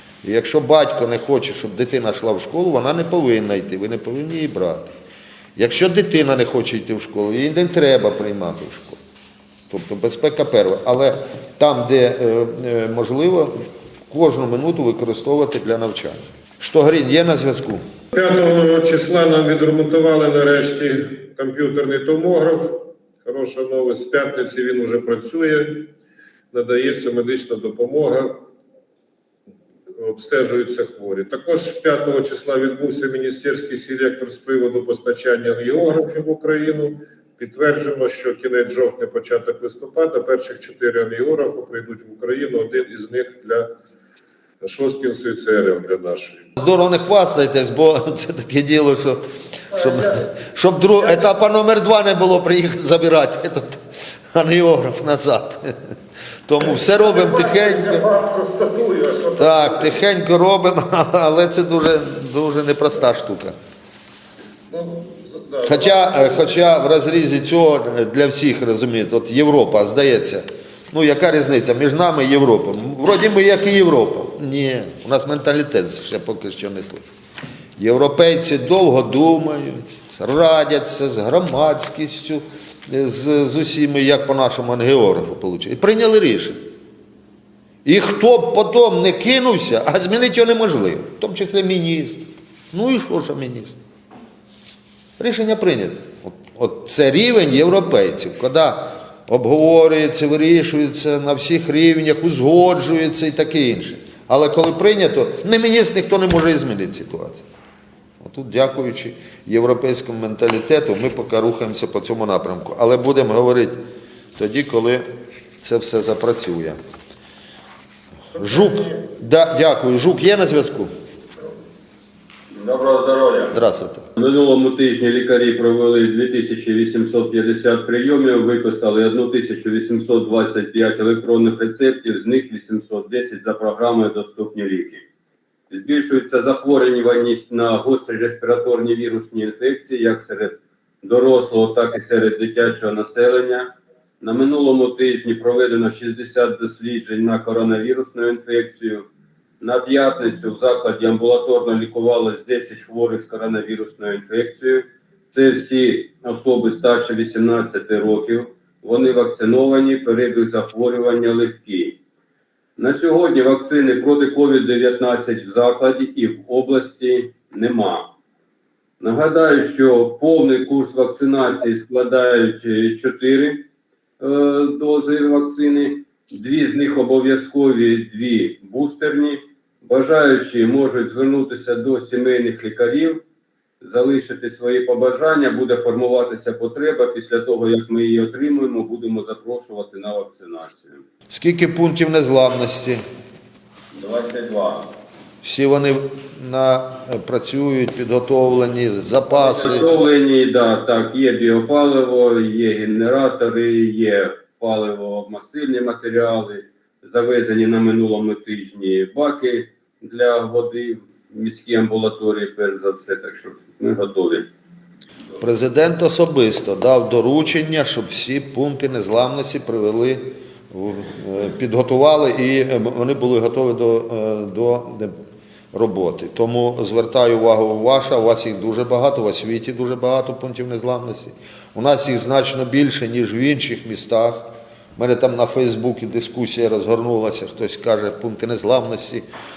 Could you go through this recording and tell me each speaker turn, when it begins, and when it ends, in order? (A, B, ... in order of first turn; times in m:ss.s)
0:00.2-0:04.9 A
0:05.6-0:09.0 A
0:09.7-0:17.8 A
0:18.1-0:25.9 B
0:26.5-0:28.5 B
0:30.0-0:43.7 B
0:44.6-0:46.5 B
0:46.6-0:55.7 A
0:49.8-0:50.1 B
0:56.5-0:58.0 A
0:56.7-1:00.0 B
0:59.4-1:03.6 A
1:04.7-1:06.4 B
1:05.6-1:17.1 A
1:17.8-1:26.7 A
1:27.8-1:33.8 A
1:35.2-1:47.4 A
1:48.2-1:53.8 A
1:54.4-1:55.1 A
1:55.6-1:56.8 A
1:58.4-2:00.9 A
1:58.4-1:58.8 B
2:02.5-2:03.6 C
2:03.5-2:04.1 A
2:04.2-2:15.0 C
2:15.7-2:29.1 C
2:29.6-2:42.0 C
2:42.8-2:48.1 C
2:49.0-2:53.6 C
2:54.2-3:03.2 C
3:03.8-3:11.0 C
3:11.3-3:13.0 A
3:13.9-3:14.9 C
3:15.4-3:19.9 A
3:19.3-3:34.5 C
3:35.4-3:45.2 A
3:45.7-3:59.3 A